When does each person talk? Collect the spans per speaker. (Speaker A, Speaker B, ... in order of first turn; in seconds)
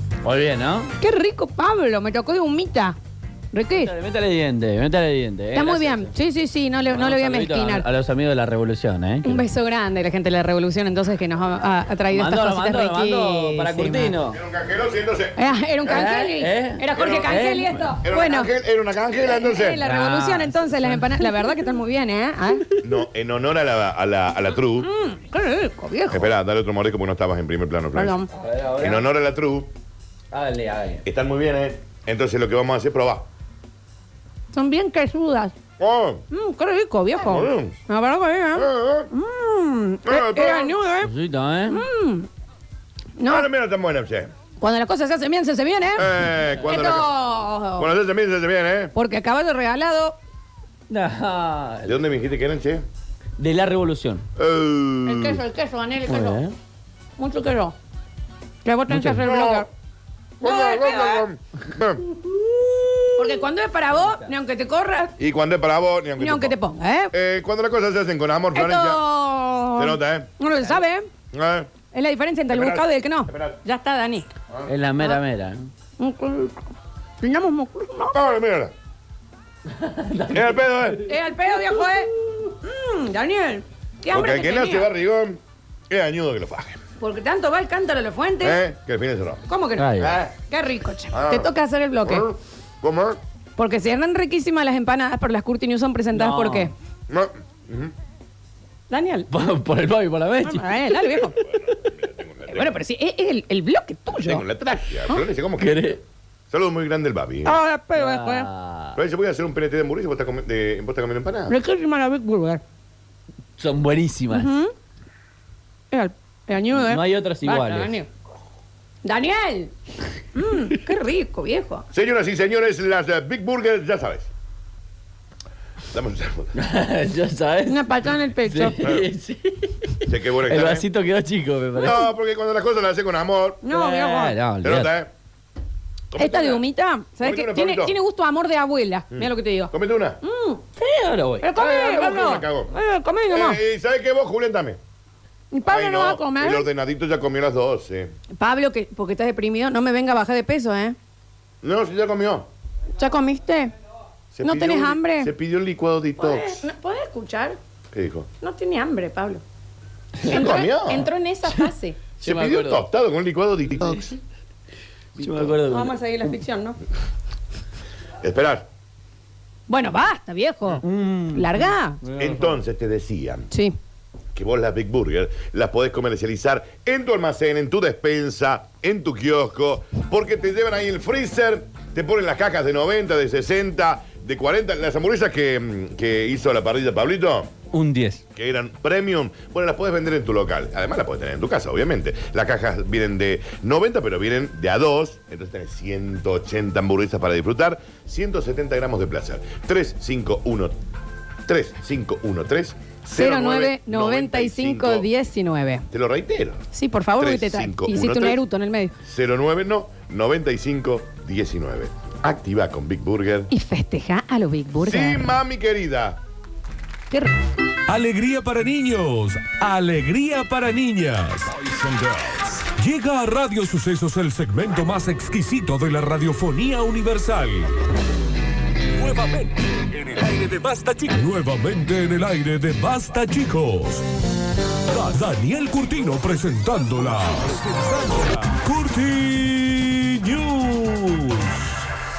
Speaker A: 0.2-0.9, 3.8-6.1, 6.9-9.4, 12.1-14.4, 15.9-17.9, 19.8-21.3, 28.3-29.1, 30.3-31.1, 41.0-41.9, 46.4-47.0, 50.9-52.0, 53.4-54.3, 56.1-56.5, 58.9-59.2, 62.3-63.1, 74.7-75.7, 79.7-81.0, 89.8-90.2, 96.1-96.7, 99.3-101.2, 105.6-106.0, 108.0-109.0, 113.6-114.5, 116.8-118.0, 126.5-132.0, 133.7-134.9, 140.8-141.5, 160.2-160.5, 161.5-162.9, 165.2-166.0, 170.8-172.6, 187.7-188.2
Speaker B: 1.0-3.0, 3.5-3.9, 5.5-7.9, 9.2-14.1, 15.4-18.5, 19.1-22.6, 24.8-26.3, 27.9-28.3, 34.5-35.5, 36.3-41.1, 41.7-42.3, 43.2-43.5, 44.6-47.9, 49.0-50.2, 55.0-56.4, 57.2-57.8, 58.6-59.7, 60.4-61.3, 63.2-65.1, 66.2-67.1, 68.5-71.1, 71.9-74.3, 76.0-78.2, 81.1-84.9, 87.0-88.6, 89.5-92.3, 93.6-96.7, 98.9-99.3, 100.4-101.4, 102.5-104.5, 107.5-108.5, 111.5-112.6, 114.3-114.7, 115.9-118.1, 119.0-119.7, 120.3-121.9, 127.7-128.8, 133.6-134.4, 136.2-140.6, 141.4-143.6, 145.5-146.7, 148.4-151.0, 153.0-153.7, 154.4-155.3, 156.2-157.6, 158.4-159.4, 160.2-162.0, 165.6-166.8, 169.7-172.0, 173.5-173.8, 203.1-205.9, 206.7-208.9, 213.5-215.3, 217.1-217.4
Speaker C: 14.3-15.4, 16.9-17.3, 18.0-19.8, 22.8-24.9, 26.1-28.2, 28.8-29.7, 31.1-33.3, 35.8-36.2, 37.2-37.8, 38.5-39.1, 40.0-40.8, 43.3-44.3, 46.0-47.1, 47.8-48.9, 51.9-52.9, 54.4-55.4, 59.2-59.7, 60.4-62.0, 65.2-66.6, 67.1-69.0, 69.8-70.3, 71.3-71.7, 72.5-73.6, 78.1-78.7, 80.3-81.0, 84.1-86.8, 88.4-89.5, 90.0-90.3, 91.1-91.5, 92.0-93.2, 97.1-97.9, 101.3-102.8, 104.1-107.6, 109.0-111.5, 121.9-124.3, 125.9-126.5, 130.0-130.9, 131.8-133.6, 134.6-135.1, 136.1-136.6, 137.2-138.0, 139.1-140.2, 141.6-142.8, 143.3-144.8, 145.7-148.1, 151.6-152.5, 154.3-156.7, 157.9-158.3, 160.3-161.1, 162.2-164.2, 165.2-165.6, 168.2-168.7, 172.2-173.5, 174.3-187.5, 188.3-200.8, 201.5-205.1, 205.9-206.6, 207.2-208.4, 209.0-213.5, 214.8-216.2
Speaker D: 217.9-227.7, 228.9-234.1, 234.9-241.8